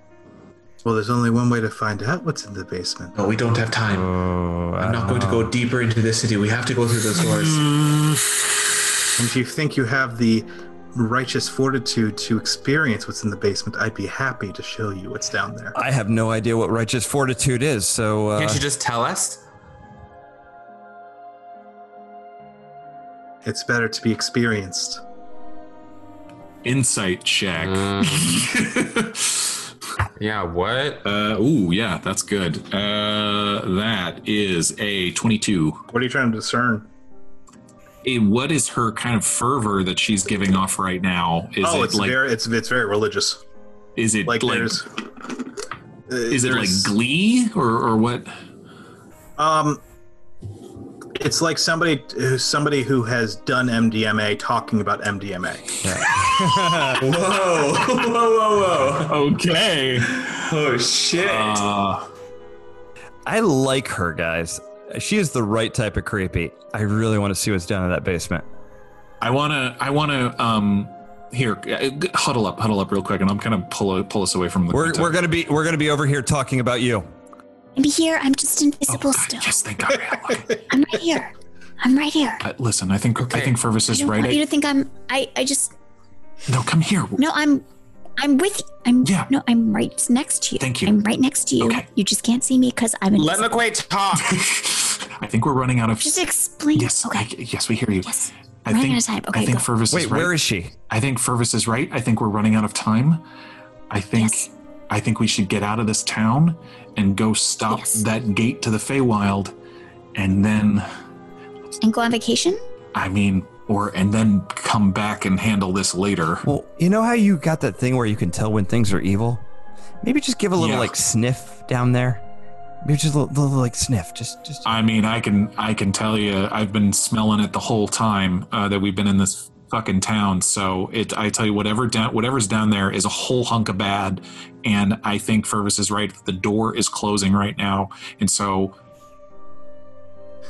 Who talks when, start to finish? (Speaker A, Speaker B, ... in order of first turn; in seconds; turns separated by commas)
Speaker A: 0.8-3.1, Speaker B: 3.1-4.1, Speaker C: 3.9-5.5, Speaker B: 4.8-7.7, Speaker D: 7.5-8.2, Speaker A: 9.2-15.8, Speaker C: 15.7-18.6, Speaker E: 18.4-19.4, Speaker A: 23.4-25.0, Speaker D: 26.6-29.5, Speaker E: 27.6-28.5, Speaker E: 30.2-31.0, Speaker D: 31.0-35.8, Speaker A: 35.9-36.9, Speaker D: 38.0-42.2, Speaker A: 41.6-43.4, Speaker D: 44.0-44.8, Speaker A: 44.2-44.9, Speaker A: 46.1-46.9, Speaker D: 46.3-48.3, Speaker A: 49.4-49.8, Speaker A: 51.1-55.7, Speaker C: 55.8-57.0, Speaker B: 56.2-59.4, Speaker D: 59.0-60.3, Speaker B: 59.9-61.6, Speaker D: 61.2-62.0, Speaker C: 63.2-68.4, Speaker D: 69.2-75.2, Speaker C: 74.7-77.0, Speaker F: 77.8-79.6, Speaker D: 78.9-80.6, Speaker F: 80.7-82.4, Speaker D: 82.4-84.4, Speaker E: 83.3-83.6, Speaker F: 83.9-85.7, Speaker D: 86.5-87.2, Speaker F: 87.2-87.6, Speaker F: 88.2-93.5, Speaker D: 89.0-89.3, Speaker D: 90.6-90.9, Speaker D: 91.6-91.9, Speaker E: 93.1-94.4, Speaker D: 94.2-96.2, Speaker F: 96.0-97.3, Speaker D: 96.7-100.3, Speaker F: 98.1-99.7, Speaker C: 99.9-100.7, Speaker D: 100.9-103.2, Speaker D: 103.9-109.5, Speaker F: 107.7-108.0, Speaker D: 110.1-110.8, Speaker F: 111.8-112.6, Speaker D: 112.9-116.5, Speaker C: 116.4-119.4, Speaker C: 120.0-122.2, Speaker D: 120.6-120.9, Speaker C: 122.8-124.7, Speaker D: 124.6-138.8